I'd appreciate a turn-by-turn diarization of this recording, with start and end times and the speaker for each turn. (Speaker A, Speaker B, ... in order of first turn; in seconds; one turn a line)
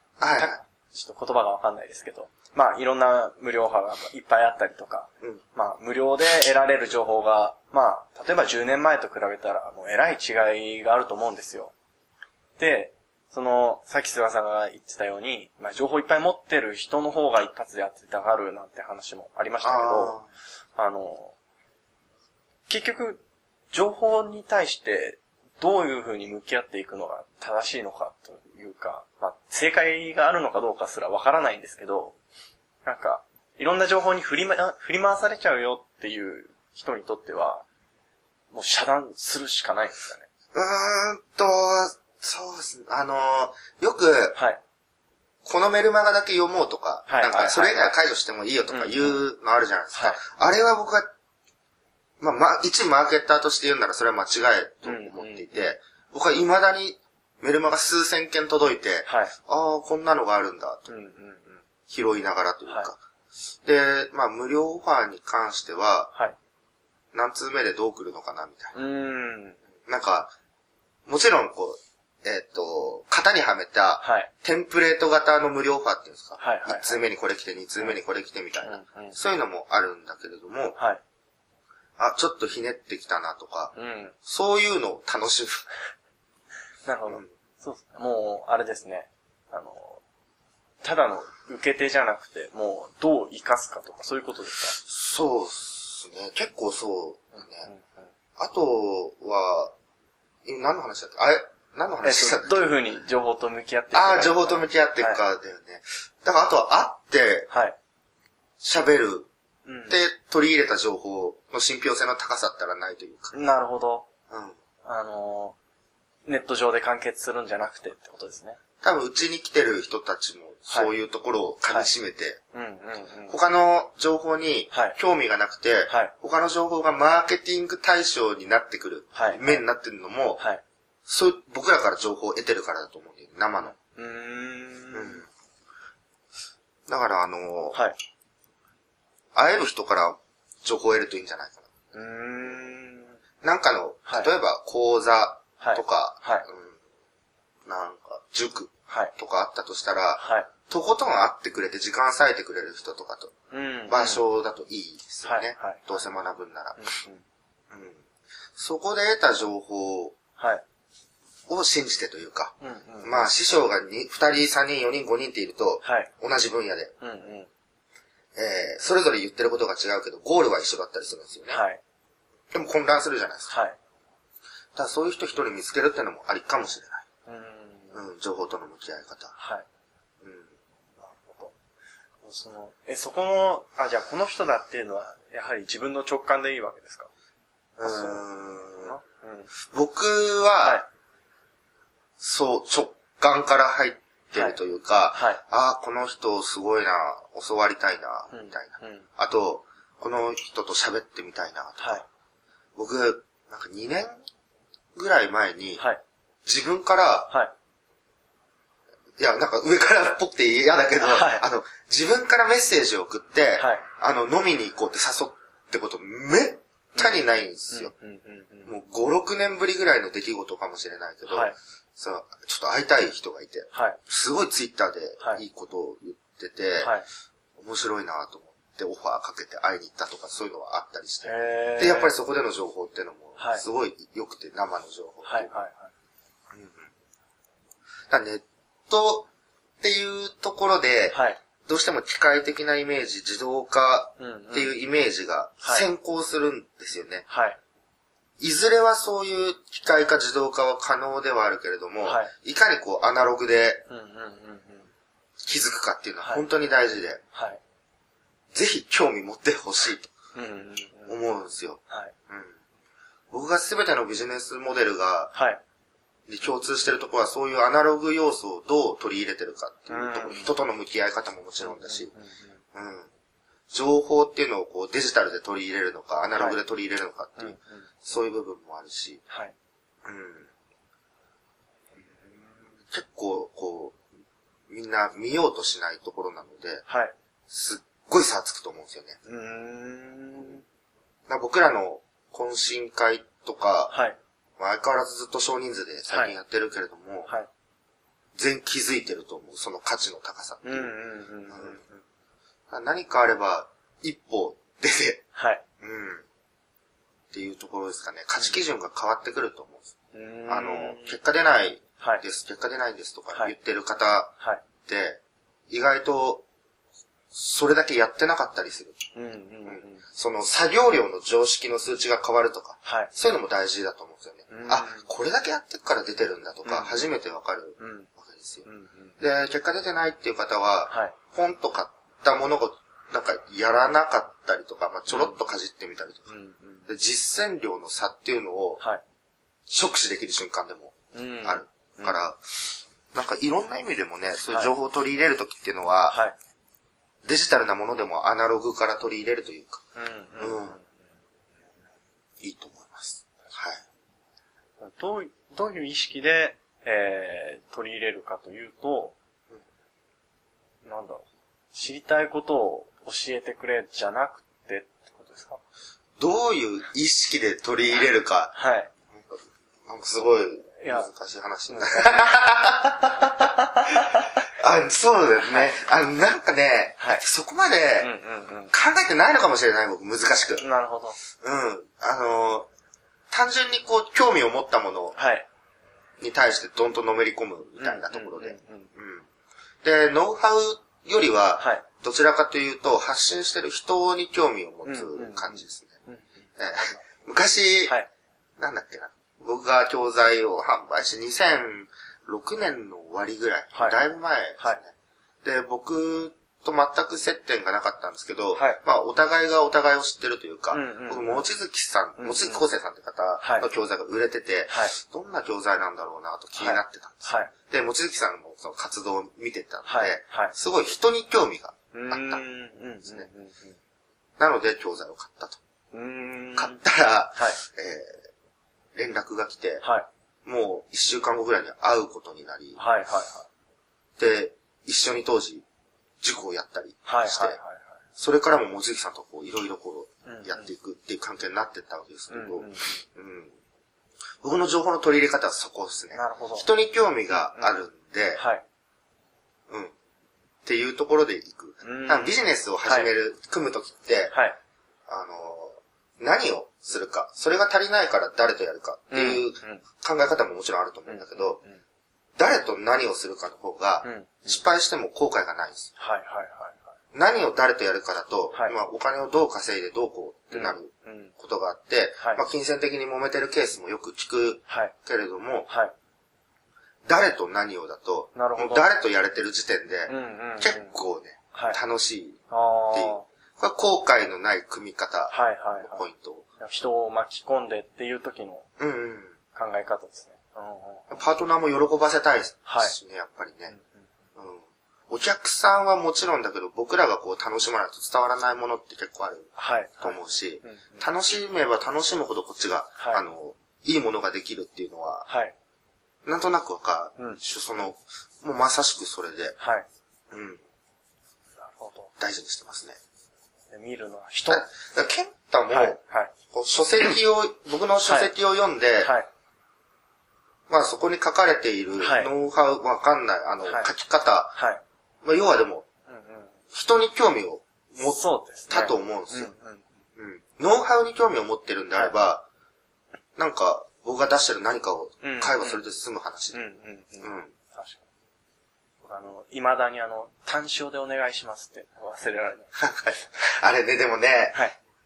Speaker A: 0.2-0.6
Speaker B: 0.3-11.7
Speaker B: 12.6-20.2
Speaker A: 19.6-20.3
Speaker B: 20.8-21.4
Speaker B: 22.7-23.2
Speaker B: 23.7-32.2
Speaker B: 32.9-37.6
Speaker B: 38.5-40.3
Speaker A: 40.5-44.4
Speaker B: 44.4-44.6
Speaker A: 45.4-51.1
Speaker B: 47.1-48.0
Speaker B: 48.7-49.2
Speaker B: 49.9-50.2
Speaker A: 52.2-60.9
Speaker B: 54.8-55.7
Speaker B: 59.1-59.3
Speaker B: 60.9-61.6
Speaker A: 61.9-63.0
Speaker A: 63.6-66.1
Speaker A: 67.1-68.8
Speaker B: 68.7-69.6
Speaker A: 69.9-70.3
Speaker A: 71.1-80.8
Speaker B: 74.0-74.3
Speaker B: 76.4-77.0
Speaker B: 78.7-79.2
Speaker B: 80.8-81.0
Speaker A: 82.0-83.7
Speaker B: 83.7-84.2
Speaker A: 84.3-85.7
Speaker B: 86.8-90.0
Speaker B: 90.8-94.8
Speaker A: 94.8-97.7
Speaker B: 97.4-98.1
Speaker A: 98.4-99.7
Speaker A: 100.5-102.8
Speaker B: 102.0-105.2
Speaker A: 103.9-107.5
Speaker B: 107.5-107.8
Speaker A: 108.6-109.3
Speaker B: 109.7-110.0
Speaker A: 109.9-113.3
Speaker B: 113.3-114.1
Speaker A: 114.3-114.6
Speaker B: 114.8-115.6
Speaker B: 116.3-118.6
Speaker A: 118.8-122.4
Speaker B: 122.5-123.4
Speaker A: 123.3-130.4
Speaker B: 124.7-125.0
Speaker B: 129.1-129.6
Speaker A: 131.1-133.7
Speaker B: 133.6-135.2
Speaker A: 134.9-135.3
Speaker A: 136.9-137.8
Speaker A: 139.3-141.7
Speaker B: 141.9-143.2
Speaker A: 143.4-146.8
Speaker B: 145.6-146.5
Speaker A: 147.7-153.3
Speaker B: 150.2-150.5
Speaker B: 153.5-154.2
Speaker A: 153.9-156.9
Speaker B: 155.2-156.1
Speaker B: 156.8-157.2
Speaker A: 157.7-158.0
Speaker A: 158.6-160.2
Speaker B: 160.4-160.6
Speaker A: 161.5-166.9
Speaker B: 162.6-163.3
Speaker B: 165.8-166.1
Speaker B: 167.0-167.5
Speaker A: 168.4-171.6
Speaker B: 171.5-171.8
Speaker A: 172.5-173.5
Speaker B: 173.5-173.8
Speaker A: 174.8-177.0
Speaker B: 177.3-178.0
Speaker A: 177.9-179.3
Speaker B: 179.3-179.7
Speaker A: 180.2-180.5
Speaker B: 181.0-181.5
Speaker B: 182.2-187.1
Speaker A: 187.8-189.0
Speaker B: 187.8-189.5
Speaker A: 189.7-190.8
Speaker B: 190.6-190.9
Speaker A: 192.2-202.0
Speaker B: 195.1-195.4
Speaker B: 198.3-199.1
Speaker B: 201.8-202.1
Speaker A: 202.8-204.2
Speaker A: 204.9-205.8
Speaker A: 206.4-207.3
Speaker A: 209.2-217.9
Speaker B: 211.0-211.5
Speaker B: 213.6-213.8
Speaker B: 217.0-218.7
Speaker A: 218.7-226.9
Speaker B: 221.3-221.6
Speaker B: 223.7-224.0
Speaker B: 226.8-227.1
Speaker A: 227.6-235.5
Speaker B: 231.2-232.2
Speaker B: 233.4-233.6
Speaker B: 235.2-235.9
Speaker A: 236.5-236.9
Speaker A: 238.1-239.3
Speaker A: 239.8-247.3
Speaker B: 241.1-241.4
Speaker B: 244.2-244.8
Speaker B: 245.6-245.9
Speaker B: 247.3-247.6
Speaker A: 248.4-253.9
Speaker B: 252.0-252.3
Speaker B: 253.9-254.9
Speaker A: 255.4-257.2
Speaker B: 256.2-256.5
Speaker B: 257.3-257.6
Speaker A: 258.5-260.1
Speaker B: 260.4-261.2
Speaker A: 261.1-262.5
Speaker A: 263.3-265.3
Speaker B: 265.3-265.6
Speaker A: 266.3-272.1
Speaker B: 269.9-270.6
Speaker B: 271.6-272.6
Speaker A: 272.7-273.1
Speaker A: 273.7-279.2
Speaker B: 277.4-277.9
Speaker B: 279.3-279.5
Speaker A: 280.1-280.5
Speaker A: 282.9-284.0
Speaker A: 284.7-286.8
Speaker B: 286.9-287.1
Speaker A: 287.5-289.2
Speaker B: 289.3-290.6
Speaker A: 291.3-293.9
Speaker B: 293.9-294.2
Speaker A: 294.6-297.3
Speaker B: 296.1-296.4
Speaker A: 298.4-300.9
Speaker B: 300.6-301.8
Speaker A: 301.5-302.0
Speaker A: 302.7-305.2
Speaker B: 305.4-305.6
Speaker A: 305.8-306.3
Speaker A: 307.3-309.9
Speaker B: 310.1-311.2
Speaker A: 310.5-314.3
Speaker A: 314.9-316.4
Speaker A: 317.3-319.0
Speaker B: 319.1-320.0
Speaker A: 319.6-328.7
Speaker B: 322.9-323.1
Speaker B: 324.5-325.1
Speaker B: 326.6-327.1
Speaker B: 327.8-328.1
Speaker B: 328.7-329.1
Speaker A: 329.2-336.3
Speaker B: 330.9-331.2
Speaker B: 335.1-335.4
Speaker B: 336.3-336.9
Speaker A: 336.9-338.8
Speaker A: 339.7-342.4
Speaker B: 341.1-342.2
Speaker A: 343.1-346.2
Speaker B: 344.5-344.7
Speaker B: 346.1-346.4
Speaker A: 347.2-349.8
Speaker B: 350.0-351.0
Speaker A: 350.4-350.8
Speaker A: 352.4-353.8
Speaker B: 354.8-359.1
Speaker B: 360.9-365.6
Speaker A: 366.2-368.5
Speaker B: 368.6-368.9
Speaker A: 369.9-373.5
Speaker B: 370.8-371.1
Speaker B: 371.7-372.3
Speaker B: 373.4-374.3
Speaker A: 374.6-378.1
Speaker B: 375.4-375.7
Speaker B: 377.0-377.2
Speaker B: 378.0-378.7
Speaker A: 378.7-380.7
Speaker B: 380.6-381.2
Speaker A: 381.4-382.7
Speaker A: 383.3-385.2
Speaker B: 385.2-385.5
Speaker A: 386.2-389.3
Speaker B: 387.8-388.9
Speaker A: 389.8-395.9
Speaker B: 391.6-391.9
Speaker B: 394.9-397.0
Speaker A: 396.6-398.0
Speaker A: 398.6-404.9
Speaker B: 403.7-404.0
Speaker A: 405.4-422.4
Speaker B: 408.6-408.8
Speaker B: 410.7-411.5
Speaker B: 412.2-412.6
Speaker B: 413.4-413.7
Speaker B: 414.7-414.9
Speaker B: 416.6-417.5
Speaker B: 419.9-420.5
Speaker B: 421.9-423.8
Speaker A: 424.4-425.6
Speaker B: 425.9-426.8
Speaker A: 426.6-428.2
Speaker B: 427.4-427.6
Speaker A: 428.9-429.8
Speaker B: 429.8-430.1
Speaker A: 430.4-432.8
Speaker B: 432.8-433.5
Speaker A: 434.2-435.6
Speaker A: 436.2-437.6
Speaker B: 437.1-437.9
Speaker A: 438.2-443.5
Speaker B: 440.3-440.7
Speaker B: 442.3-443.0
Speaker A: 444.4-448.4
Speaker B: 446.1-446.7
Speaker B: 447.3-447.8
Speaker B: 448.4-448.6
Speaker A: 450.6-454.4
Speaker B: 451.8-453.1
Speaker B: 454.3-454.6
Speaker A: 455.1-461.6
Speaker B: 459.1-459.8
Speaker B: 461.1-461.8
Speaker A: 462.4-465.9
Speaker B: 464.0-464.6
Speaker B: 466.0-466.9
Speaker A: 467.1-475.7
Speaker B: 470.5-471.3
Speaker B: 474.7-474.9
Speaker B: 475.7-475.9
Speaker A: 477.1-482.4
Speaker B: 478.4-478.9
Speaker B: 480.1-480.9
Speaker B: 481.5-481.8
Speaker B: 482.5-483.2
Speaker A: 482.9-486.5
Speaker B: 485.3-486.1
Speaker B: 486.6-488.7
Speaker A: 488.8-489.4
Speaker B: 489.5-491.2
Speaker A: 491.1-493.8
Speaker B: 492.7-492.9
Speaker B: 493.7-494.1
Speaker A: 494.4-505.3
Speaker B: 499.6-501.1
Speaker B: 503.0-503.2
Speaker B: 505.3-505.5
Speaker A: 506.2-509.6
Speaker B: 509.6-509.9
Speaker A: 510.3-510.6
Speaker B: 511.6-512.1
Speaker A: 512.2-513.0
Speaker B: 513.7-514.7
Speaker A: 514.5-516.0
Speaker B: 515.7-516.3
Speaker A: 516.5-519.1
Speaker B: 518.1-518.3
Speaker B: 519.0-519.3
Speaker A: 520.7-524.5
Speaker B: 522.0-522.3
Speaker B: 523.6-523.9
Speaker B: 524.5-524.8
Speaker A: 525.2-525.9
Speaker B: 526.1-526.5
Speaker A: 526.7-529.5
Speaker B: 528.0-529.8
Speaker A: 530.2-532.5
Speaker B: 531.9-532.2
Speaker A: 533.4-536.6
Speaker B: 535.2-535.9
Speaker B: 536.5-538.0
Speaker A: 537.2-537.5
Speaker B: 539.0-542.7
Speaker A: 542.8-544.6